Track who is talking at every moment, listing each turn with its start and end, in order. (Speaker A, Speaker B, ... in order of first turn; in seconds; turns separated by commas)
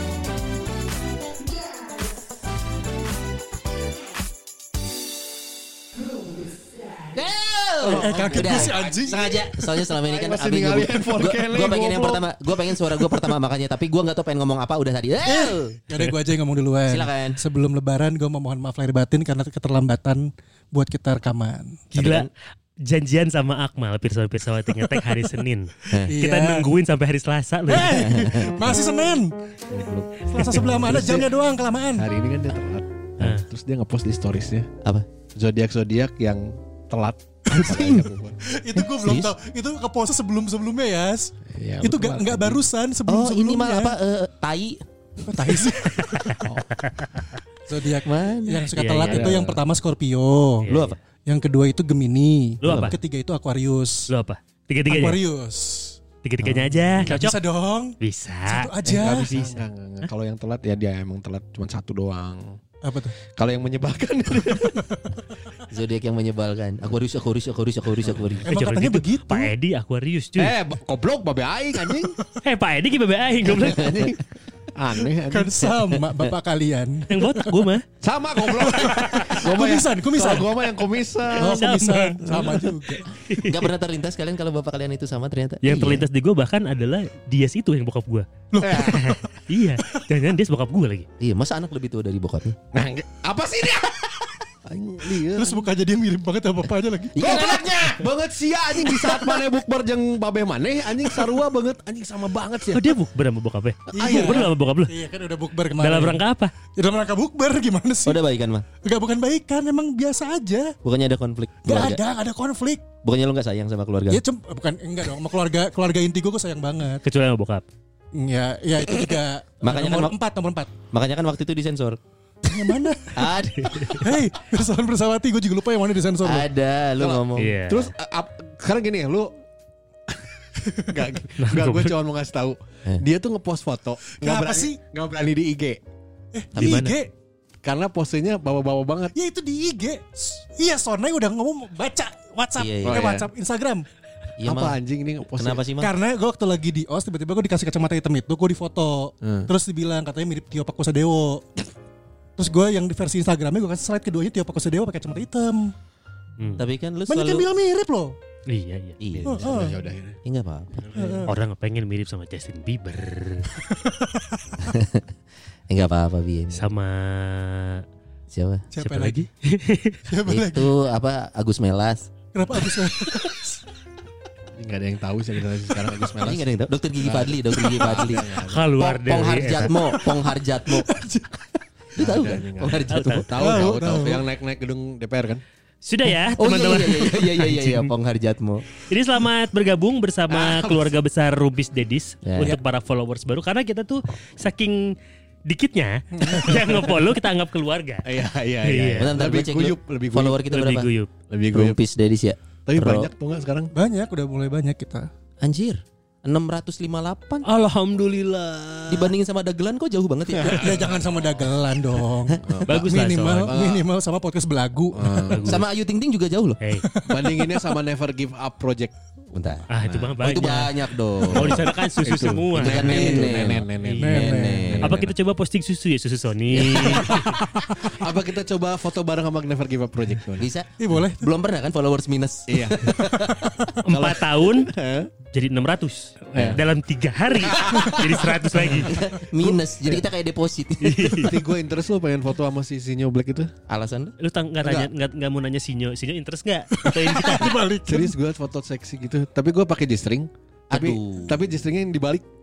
Speaker A: 7.1-15.8, Speaker B: 7.8-8.7, Speaker C: 7.9-9.7, Speaker B: 10.0-12.3, Speaker C: 15.2-21.8, Speaker A: 16.9-17.4, Speaker A: 21.9-22.3, Speaker D: 21.9-22.3, Speaker D: 22.8-28.5, Speaker A: 25.9-26.1, Speaker C: 26.1-26.7, Speaker C: 27.7-29.3, Speaker A: 27.9-28.6, Speaker B: 29.7-31.3, Speaker C: 30.3-32.1, Speaker B: 31.9-34.7, Speaker B: 35.4-38.4, Speaker A: 37.5-38.1, Speaker C: 38.5-44.0, Speaker A: 38.8-39.3, Speaker B: 41.5-42.6, Speaker A: 43.1-44.8, Speaker C: 45.2-46.5, Speaker D: 46.0-47.2, Speaker C: 47.6-50.7, Speaker A: 48.0-48.7, Speaker D: 48.8-49.4, Speaker B: 49.1-49.6, Speaker D: 50.6-50.9, Speaker A: 50.7-51.0, Speaker C: 51.2-54.1, Speaker D: 52.6-53.0, Speaker D: 54.1-55.2, Speaker C: 54.9-56.0, Speaker D: 56.2-57.4, Speaker A: 56.4-57.1, Speaker C: 57.0-57.9, Speaker D: 58.0-59.4, Speaker C: 58.5-59.6, Speaker B: 58.9-62.6, Speaker C: 62.8-63.1, Speaker B: 63.4-64.9, Speaker A: 65.7-68.5, Speaker C: 68.5-69.5, Speaker D: 68.5-70.5, Speaker B: 70.4-72.2, Speaker D: 72.4-74.2, Speaker A: 73.6-74.2, Speaker B: 74.7-75.8, Speaker C: 75.3-77.7, Speaker D: 77.1-77.8, Speaker B: 78.0-81.7, Speaker C: 78.4-80.7, Speaker D: 78.8-79.3, Speaker C: 81.3-83.1, Speaker D: 81.4-83.7, Speaker A: 83.3-86.1, Speaker D: 85.6-91.1, Speaker C: 88.5-89.2, Speaker B: 88.6-89.1, Speaker A: 91.2-92.6, Speaker B: 92.7-95.7, Speaker C: 95.3-97.6, Speaker A: 97.1-98.0, Speaker B: 97.2-103.0, Speaker D: 102.7-104.9, Speaker C: 103.9-108.2, Speaker B: 104.0-104.5, Speaker D: 105.7-106.5, Speaker A: 108.0-108.6, Speaker C: 108.8-110.7, Speaker A: 110.8-112.0, Speaker C: 111.6-112.8, Speaker A: 113.0-114.2, Speaker C: 114.1-117.0, Speaker D: 117.0-117.6, Speaker C: 118.1-120.7, Speaker A: 119.6-120.2, Speaker A: 120.9-124.1, Speaker C: 122.4-123.3, Speaker D: 123.6-124.0, Speaker C: 124.0-126.5, Speaker A: 126.2-127.5, Speaker B: 127.0-129.4, Speaker D: 127.4-127.9, Speaker B: 130.8-135.8, Speaker D: 131.4-131.9, Speaker C: 134.2-134.8, Speaker C: 136.3-137.1, Speaker A: 136.5-137.0, Speaker B: 137.6-139.1, Speaker C: 139.1-143.8, Speaker A: 142.6-143.0, Speaker B: 142.8-143.3, Speaker A: 144.4-145.9, Speaker B: 144.4-145.6, Speaker C: 145.8-151.5, Speaker B: 149.2-149.5, Speaker C: 152.4-155.7, Speaker D: 156.4-156.6, Speaker A: 156.6-157.5, Speaker C: 157.1-158.2, Speaker D: 158.5-159.4, Speaker A: 159.0-159.7, Speaker C: 159.2-159.8, Speaker B: 159.4-160.2, Speaker A: 160.2-161.0, Speaker B: 160.7-161.3, Speaker C: 160.9-161.3, Speaker D: 161.2-163.5, Speaker C: 163.6-164.5, Speaker A: 164.6-165.1, Speaker A: 165.7-166.7, Speaker D: 166.5-167.8, Speaker A: 168.3-169.1, Speaker C: 168.7-169.3, Speaker D: 168.8-170.0, Speaker C: 170.1-170.7, Speaker A: 170.3-172.1, Speaker C: 172.3-173.6, Speaker B: 174.6-176.4, Speaker A: 176.2-181.0, Speaker B: 177.0-178.6, Speaker D: 178.5-179.7, Speaker C: 179.8-181.4, Speaker A: 181.9-183.3, Speaker B: 182.0-185.4, Speaker D: 182.9-183.3, Speaker C: 183.4-184.2, Speaker D: 185.8-187.9, Speaker A: 186.3-188.6, Speaker D: 188.8-198.1, Speaker B: 190.3-190.9, Speaker A: 192.2-192.6, Speaker C: 196.1-196.8, Speaker B: 198.0-200.4, Speaker D: 198.6-199.2, Speaker A: 199.0-200.9, Speaker D: 200.4-201.1, Speaker B: 201.3-201.8, Speaker A: 201.5-203.1, Speaker B: 202.7-203.7, Speaker C: 203.7-205.1, Speaker A: 205.4-207.4, Speaker D: 207.4-209.1, Speaker A: 208.9-210.7, Speaker B: 210.3-211.0, Speaker C: 210.5-215.5, Speaker A: 212.3-212.7, Speaker B: 212.4-212.9, Speaker D: 212.7-213.6, Speaker B: 213.4-213.8, Speaker B: 214.9-215.6, Speaker D: 215.2-215.7, Speaker A: 215.4-216.6, Speaker D: 216.6-216.9, Speaker C: 216.9-217.7, Speaker B: 217.1-218.9, Speaker A: 219.3-219.7, Speaker D: 219.7-223.3, Speaker B: 219.8-220.2, Speaker A: 220.2-221.6, Speaker B: 221.1-225.1, Speaker A: 222.2-224.8, Speaker C: 222.8-223.5, Speaker D: 223.8-227.4, Speaker C: 224.0-224.7, Speaker B: 226.6-227.2, Speaker A: 226.6-226.9, Speaker C: 227.0-227.7, Speaker B: 227.8-230.4, Speaker A: 230.4-233.5, Speaker C: 230.8-231.3, Speaker B: 232.5-232.9, Speaker C: 233.2-233.7, Speaker D: 233.8-234.7, Speaker B: 233.9-235.1, Speaker D: 235.3-238.9, Speaker B: 236.2-236.6, Speaker A: 236.3-236.6, Speaker B: 237.5-238.1, Speaker A: 238.8-241.2, Speaker B: 239.4-240.0, Speaker D: 240.8-241.4, Speaker B: 241.1-243.5, Speaker A: 243.7-244.1, Speaker D: 244.2-247.6, Speaker B: 244.6-244.9, Speaker C: 246.8-248.1, Speaker B: 247.8-252.2, Speaker A: 250.7-251.4